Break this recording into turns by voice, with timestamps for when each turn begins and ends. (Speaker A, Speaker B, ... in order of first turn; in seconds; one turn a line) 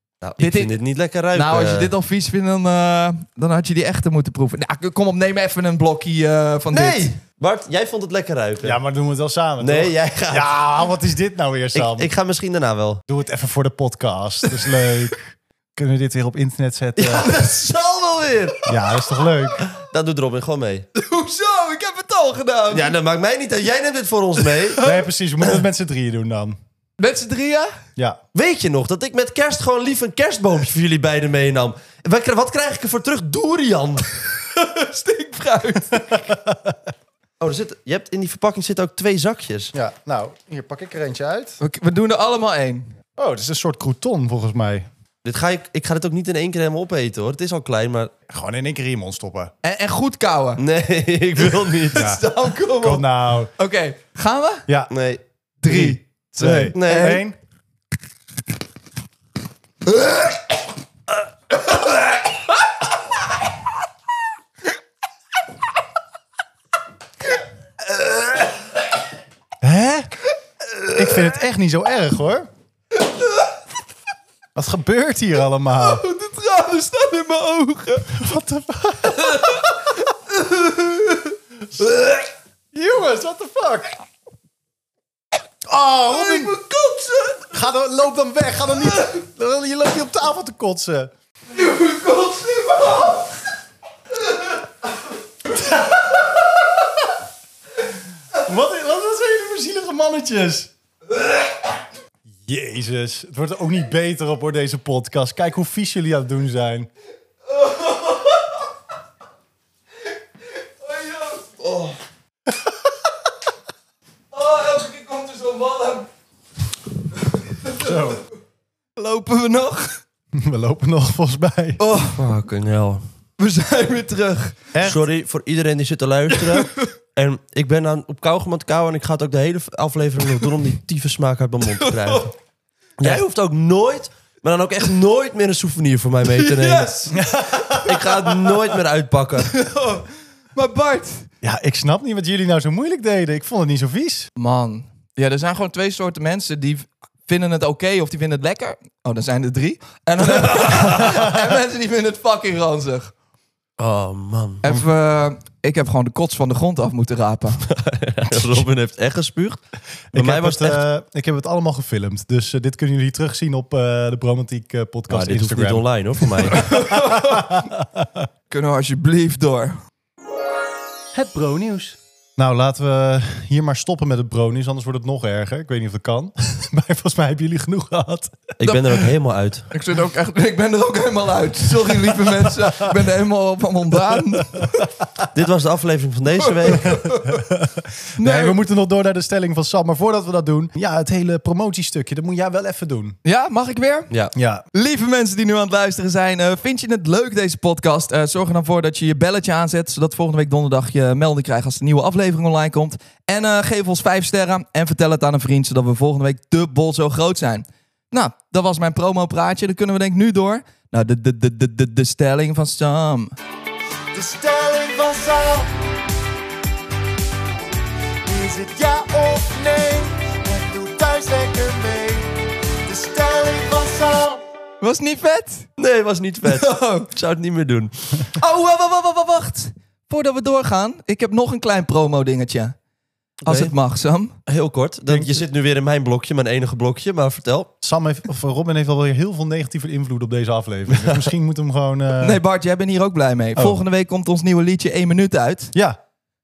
Speaker A: 0.2-1.9
Speaker B: 0.4-0.7
Speaker B: 1.3-7.1
Speaker A: 6.7-8.8
Speaker C: 8.6-12.1
Speaker A: 9.6-10.6
Speaker A: 11.7-13.0
Speaker C: 13.1-17.3
Speaker A: 17.0-18.7
Speaker C: 18.6-19.6
Speaker A: 19.6-20.8
Speaker B: 20.9-22.9
Speaker A: 22.7-24.8
Speaker C: 24.8-26.6
Speaker B: 27.0-27.7
Speaker A: 28.3-34.1
Speaker B: 34.3-36.1
Speaker C: 36.1-36.8
Speaker A: 37.4-39.7
Speaker C: 39.7-41.6
Speaker B: 41.6-42.9
Speaker C: 43.2-44.9
Speaker A: 45.2-48.1
Speaker C: 48.3-49.5
Speaker B: 49.6-50.6
Speaker A: 50.6-52.1
Speaker B: 51.9-53.0
Speaker C: 51.9-53.5
Speaker B: 53.6-54.7
Speaker A: 54.9-55.2
Speaker B: 55.6-57.2
Speaker C: 55.6-57.4
Speaker A: 56.7-57.2
Speaker B: 68.0-68.4
Speaker C: 69.6-70.1
Speaker B: 70.8-71.1
Speaker C: 70.9-72.5
Speaker B: 73.0-73.5
Speaker C: 74.5-76.0
Speaker B: 75.8-78.1
Speaker C: 78.1-79.8
Speaker B: 79.3-81.3
Speaker C: 82.7-84.0
Speaker C: 85.7-86.6
Speaker B: 86.1-87.5
Speaker C: 87.5-91.1
Speaker B: 91.5-93.3
Speaker C: 95.5-96.8
Speaker C: 98.4-100.7
Speaker C: 102.4-106.9
Speaker B: 107.5-108.5
Speaker B: 110.8-112.0
Speaker B: 114.3-116.1
Speaker B: 117.6-118.1
Speaker C: 117.8-118.2
Speaker B: 119.0-120.0
Speaker C: 120.3-121.8
Speaker B: 121.8-122.2
Speaker A: 122.2-123.0
Speaker B: 123.4-124.7
Speaker C: 124.7-125.0
Speaker A: 124.8-132.3
Speaker B: 126.4-126.8
Speaker B: 131.6-132.3
Speaker A: 133.0-137.1
Speaker B: 136.2-137.2
Speaker C: 137.1-138.6
Speaker A: 137.7-139.5
Speaker B: 139.5-141.3
Speaker C: 141.4-144.3
Speaker B: 144.3-153.1
Speaker A: 153.8-154.6
Speaker B: 154.6-157.6
Speaker A: 157.6-159.6
Speaker C: 160.1-168.3
Speaker A: 160.1-160.8
Speaker A: 165.1-166.7
Speaker B: 166.6-167.5
Speaker B: 168.5-169.8
Speaker D: 171.2-171.9
Speaker C: 172.4-178.6
Speaker A: 178.6-179.7
Speaker B: 179.7-184.9
Speaker A: 185.3-187.0
Speaker B: 186.4-187.4
Speaker C: 186.8-193.2
Speaker B: 188.2-188.6
Speaker B: 193.2-194.1
Speaker C: 194.3-194.6
Speaker B: 194.7-213.3
Speaker D: 214.1-215.7
Speaker D: 218.2-224.4
Speaker B: 224.8-225.7
Speaker A: 225.8-228.3
Speaker B: 226.4-227.1
Speaker B: 228.3-232.7
Speaker A: 233.4-233.7
Speaker B: 233.4-234.3
Speaker A: 234.5-237.7
Speaker C: 235.1-235.4
Speaker C: 237.8-242.4
Speaker A: 240.9-241.3
Speaker B: 242.2-245.7